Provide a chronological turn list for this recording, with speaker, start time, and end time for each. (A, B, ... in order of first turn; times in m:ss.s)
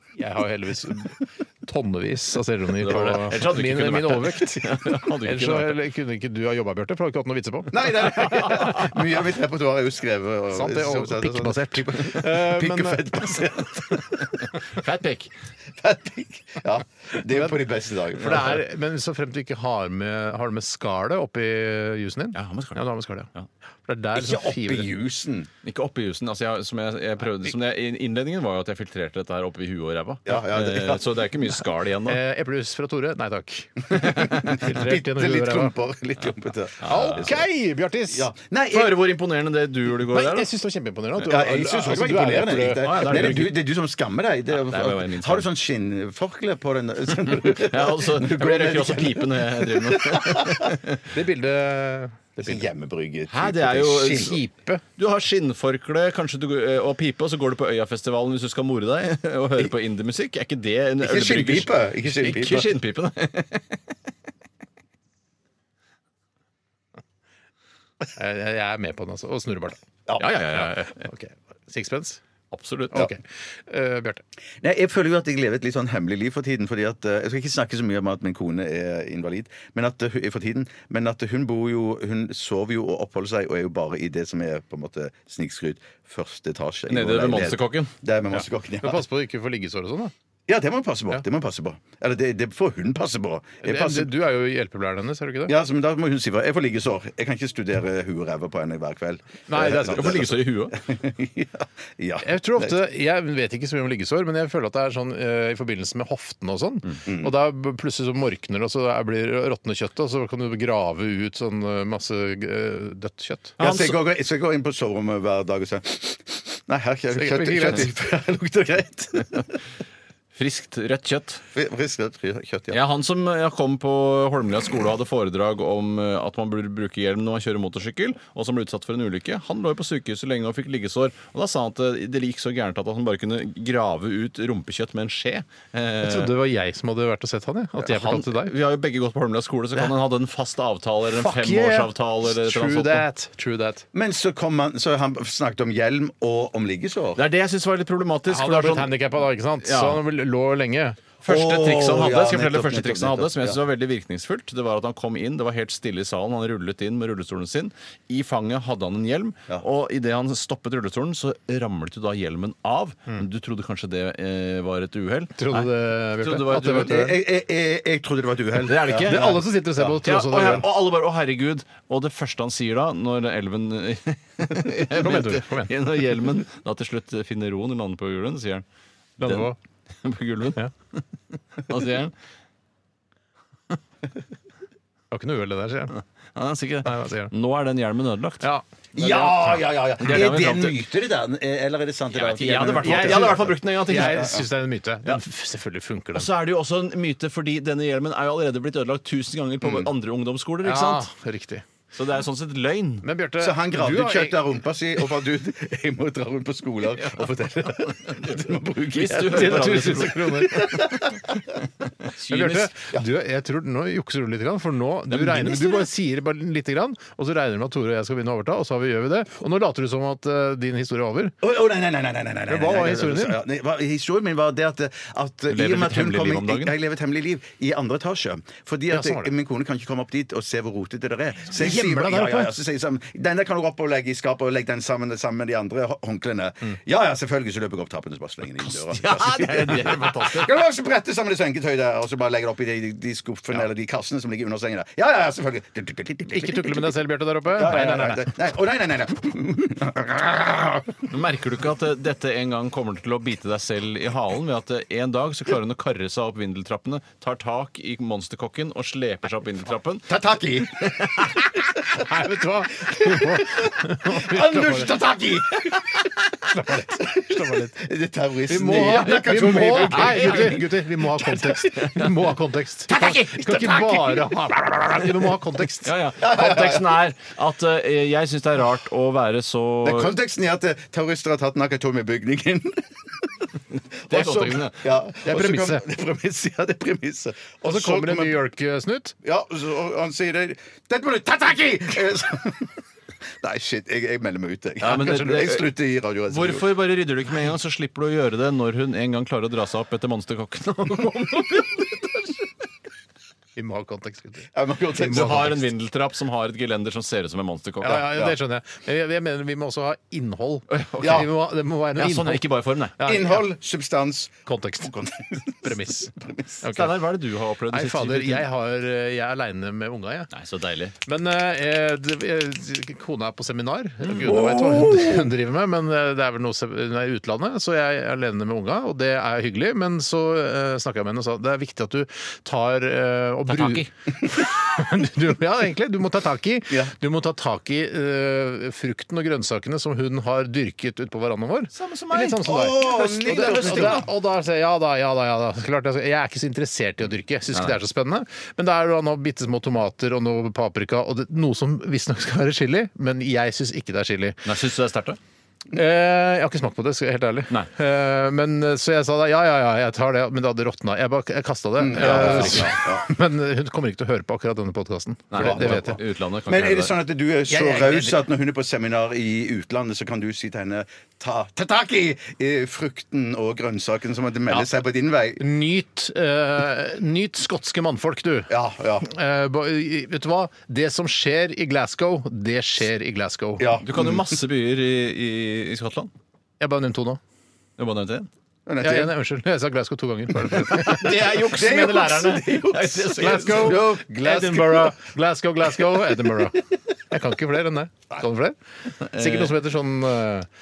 0:00.2-0:08.8 A
0:02.8-0:05.8 B
0:07.7-0:14.0 C
0:08.3-0:08.8 B
0:10.5-0:14.0 A
0:14.2-0:15.3 B
0:15.8-0:18.6 C
0:18.1-0:23.3 A
0:22.4-0:22.8 B
0:23.9-0:24.9 A
0:24.2-0:25.5 C
0:25.6-0:32.2 B
0:30.3-0:31.1 C
0:32.1-0:35.7 A
0:34.2-0:37.4 C
0:36.8-0:37.3 B
0:36.8-0:38.3 A
0:38.1-0:39.1 C
0:38.7-0:40.5 B
0:40.1-0:43.3 A
0:41.2-0:50.8 C
0:42.8-0:43.6 B
0:44.5-0:45.5 B
0:47.3-0:51.0 B
0:51.1-0:52.6 A
0:52.4-0:54.4 C
0:53.3-0:54.4 B
0:54.1-0:54.8 A
0:55.0-1:03.8 B
1:01.0-1:02.7 C
1:08.1-1:09.8 A
1:10.2-1:11.1 B
1:10.5-1:12.2 A
1:12.5-1:13.1 B
1:12.9-1:14.2 A
1:14.6-1:29.0 C
1:26.9-1:27.9 B
1:28.3-1:30.1 A
1:30.5-1:34.1 C
1:33.6-1:35.6 A
1:35.5-1:42.8 C
1:39.5-1:40.3 A
1:39.8-1:40.8 B
1:42.2-1:53.6 A
1:47.1-1:47.3 C
1:53.6-1:54.0 B
1:53.6-1:59.5 C
1:57.1-1:57.9 A
2:00.4-2:01.4 B
2:01.5-2:02.8 C
2:02.7-2:16.3 B
2:16.0-2:18.5 A
2:17.8-2:23.1 B
2:21.2-2:23.9 A
2:23.9-2:27.2 C
2:27.2-2:29.0 B
2:28.3-2:31.0 A
2:29.6-2:30.0 B
2:31.2-2:47.0 B
2:31.2-2:33.6 C
2:45.4-2:47.2 A
2:46.6-2:50.6 C
2:48.6-2:49.4 B
2:49.0-2:50.6 A
2:50.0-2:58.6 B
2:54.8-2:55.7 A
2:59.2-2:59.6 A
2:59.2-3:01.0 B
3:01.6-3:02.1 B
3:05.1-3:06.0 A
3:06.4-3:08.5 B
3:06.8-3:07.3 A
3:08.4-3:09.6 A
3:09.0-3:14.4 C
3:10.0-3:10.8 B
3:12.1-3:14.4 B
3:12.7-3:16.3 A
3:16.1-3:21.1 B
3:19.6-3:19.9 C
3:20.6-3:21.6 A
3:21.9-3:23.1 B
3:23.0-3:24.4 A
3:23.4-3:31.4 C
3:27.8-3:30.8 B
3:29.2-3:31.0 A
3:32.0-3:32.7 B
3:32.3-3:41.4 A
3:35.1-3:35.9 B
3:41.4-4:06.9 C
3:42.5-3:43.4 A
3:45.5-3:46.7 B
3:48.9-3:49.3 A
3:51.5-3:52.5 A
3:59.0-4:00.5 A
3:59.0-4:00.2 B
4:06.3-4:08.3 A
4:07.5-4:11.0 C
4:11.1-4:21.4 B
4:20.1-4:21.4 C
4:21.9-4:25.0 A
4:22.8-4:30.7 C
4:26.4-4:27.8 A
4:28.5-4:35.9 A
4:28.9-4:30.7 B
4:31.2-4:32.1 B
4:32.9-4:34.2 C
4:32.9-4:33.8 B
4:35.8-4:40.2 B
4:36.2-4:37.1 C
4:39.8-4:43.3 C
4:44.1-4:44.8 B
4:44.1-4:48.4 C
4:45.2-4:45.8 A
4:47.6-4:49.1 A
4:49.2-4:52.8 C
4:53.4-4:56.7 C
4:54.8-4:55.7 B
4:54.9-4:55.4 A
4:56.3-5:02.5 B
5:03.6-5:05.6 A
5:04.5-5:05.6 C
5:05.0-5:08.1 B
5:07.8-5:13.4 A
5:08.0-5:08.4 C
5:10.7-5:11.3 B
5:11.0-5:11.3 C
5:12.0-5:13.0 B
5:13.0-5:16.6 C
5:14.5-5:14.9 A
5:15.6-5:17.0 A
5:16.7-5:18.5 B
5:17.7-5:20.3 A
5:20.3-5:21.0 B
5:21.0-5:54.5 A
5:24.2-5:25.3 C
5:33.5-5:33.9 B
5:41.7-5:44.0 B
5:42.4-5:44.1 C
5:54.4-5:55.2 B
5:55.7-6:06.0 A
6:01.8-6:03.1 C
6:01.9-6:02.8 B
6:05.3-6:06.9 B
6:05.4-6:15.4 C
6:07.5-6:08.2 A
6:15.4-6:23.7 A
6:18.5-6:19.1 C
6:23.6-6:24.4 C
6:23.8-6:26.1 B
6:26.6-6:27.2 A
6:27.8-6:28.3 B
6:28.7-6:29.1 C
6:28.8-6:31.1 A
6:30.4-6:34.9 C
6:30.7-6:34.6 B
6:33.2-6:38.6 A
6:39.0-6:39.6 B
6:39.1-6:40.5 A